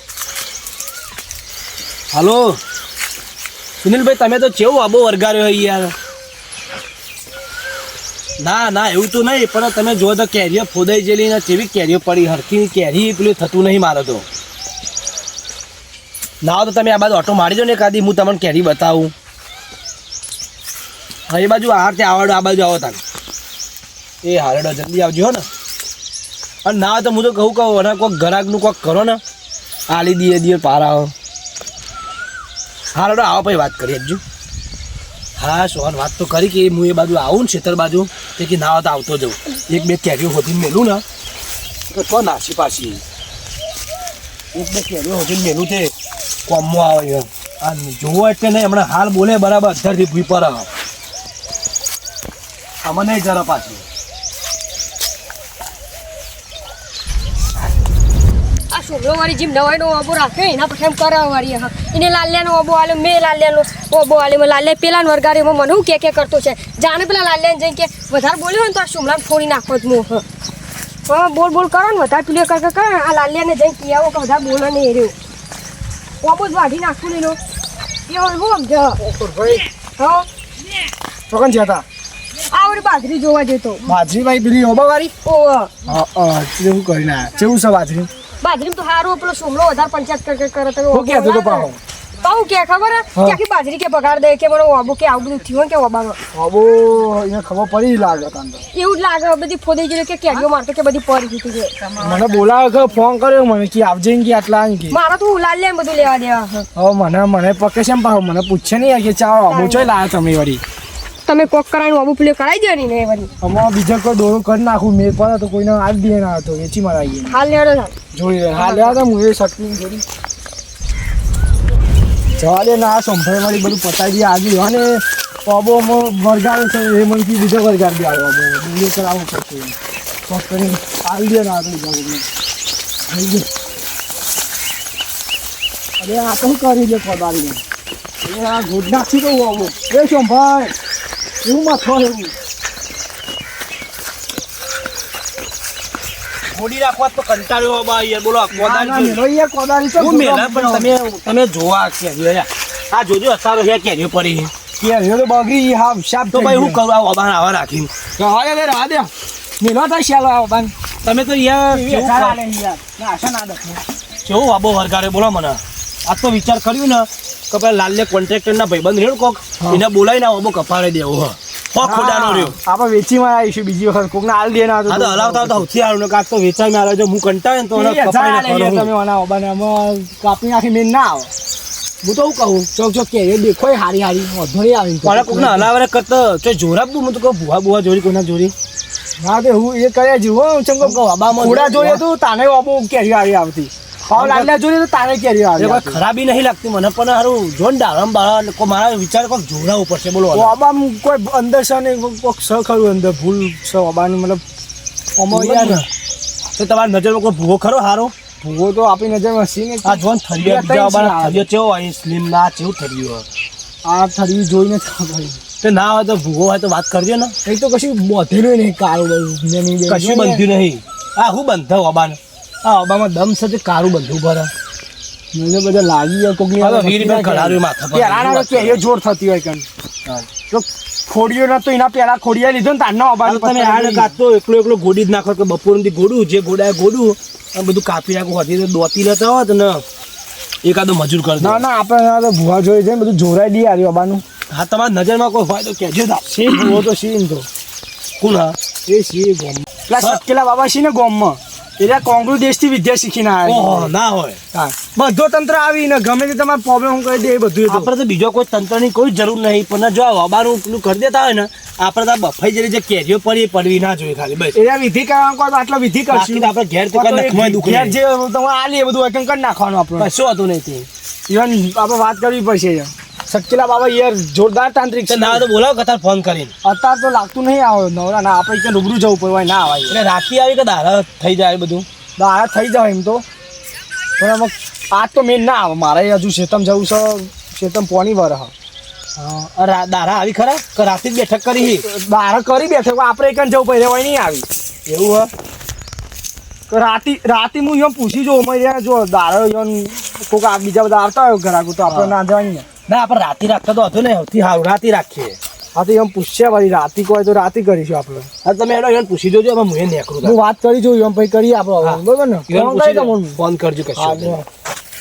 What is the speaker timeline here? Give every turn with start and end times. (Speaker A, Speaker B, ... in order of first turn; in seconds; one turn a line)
Speaker A: 2.1-2.6
Speaker A: 3.8-5.9
Speaker A: 8.4-14.3
Speaker A: 16.4-19.1
Speaker A: 21.3-23.0
Speaker A: 24.2-25.5
Speaker A: 26.6-29.2
Speaker A: 29.9-31.1
Speaker A: 32.9-34.2
Speaker A: 35.4-41.0
Speaker A: 41.9-43.0
Speaker A: 44.5-45.9
Speaker A: 46.5-50.7
Speaker A: 52.8-53.8
Speaker B: 58.7-70.2
Speaker B: 71.1-75.1
Speaker B: 76.2-77.4
Speaker B: 78.1-79.0
Speaker C: 79.0-79.6
Speaker B: 80.0-80.3
Speaker C: 81.3-81.8
Speaker B: 82.5-83.8
Speaker C: 83.8-85.1
Speaker B: 85.2-85.7
Speaker C: 85.9-88.1
Speaker B: 88.4-91.7
Speaker C: 90.9-91.8
Speaker B: 92.2-96.2
Speaker C: 96.3-98.6
Speaker B: 98.7-101.8
Speaker C: 102.0-105.0
Speaker B: 104.9-106.7
Speaker C: 106.8-110.6
Speaker B: 109.5-109.9
Speaker B: 111.3-113.3
Speaker C: 113.4-117.4
Speaker B: 117.3-117.9
Speaker C: 118.1-120.0
Speaker B: 118.5-119.0
Speaker C: 122.4-129.8
Speaker C: 130.3-132.2
Speaker C: 133.1-133.5
Speaker C: 136.0-137.6
Speaker C: 138.2-140.7
Speaker C: 141.4-142.3
Speaker A: 146.5-149.2
Speaker C: 148.5-150.9
Speaker A: 150.0-154.5
Speaker C: 154.8-156.8
Speaker A: 156.3-157.9
Speaker C: 158.2-160.7
Speaker A: 161.0-162.4
Speaker C: 161.7-163.8
Speaker A: 164.2-172.6
Speaker C: 171.8-175.7
Speaker A: 174.9-178.9
Speaker C: 177.8-181.3
Speaker A: 182.0-182.7
Speaker C: 182.7-185.7
Speaker A: 185.0-188.5
Speaker C: 189.2-196.0
Speaker A: 190.8-192.0
Speaker A: 194.1-194.5
Speaker A: 195.6-200.6
Speaker C: 200.3-204.4
Speaker C: 205.2-205.8
Speaker A: 205.3-205.9
Speaker A: 206.6-208.1
Speaker C: 208.4-211.5
Speaker A: 209.8-213.2
Speaker C: 213.8-215.4
Speaker A: 215.6-217.3
Speaker C: 217.4-220.4
Speaker A: 219.9-224.5
Speaker C: 225.3-229.7
Speaker A: 226.6-228.8
Speaker C: 230.4-234.2
Speaker A: 233.2-239.8
Speaker A: 240.6-241.7
Speaker C: 241.4-244.2
Speaker A: 244.5-246.8
Speaker C: 246.3-247.5
Speaker A: 248.2-248.6
Speaker C: 248.9-253.9
Speaker A: 250.0-250.2
Speaker A: 253.4-254.4
Speaker C: 254.5-257.9
Speaker A: 257.6-264.6
Speaker C: 264.5-270.1
Speaker A: 266.1-268.0
Speaker A: 270.0-270.9
Speaker C: 271.3-275.4
Speaker A: 275.1-276.5
Speaker C: 276.6-280.0
Speaker A: 279.9-281.9
Speaker C: 282.2-283.2
Speaker C: 284.2-288.5
Speaker A: 289.2-291.9
Speaker C: 291.6-294.5
Speaker A: 294.9-295.3
Speaker C: 296.7-302.7
Speaker A: 301.9-302.2
Speaker A: 302.9-305.4
Speaker C: 305.7-308.3
Speaker A: 308.4-310.4
Speaker C: 310.2-313.4
Speaker A: 311.8-314.4
Speaker C: 314.0-314.5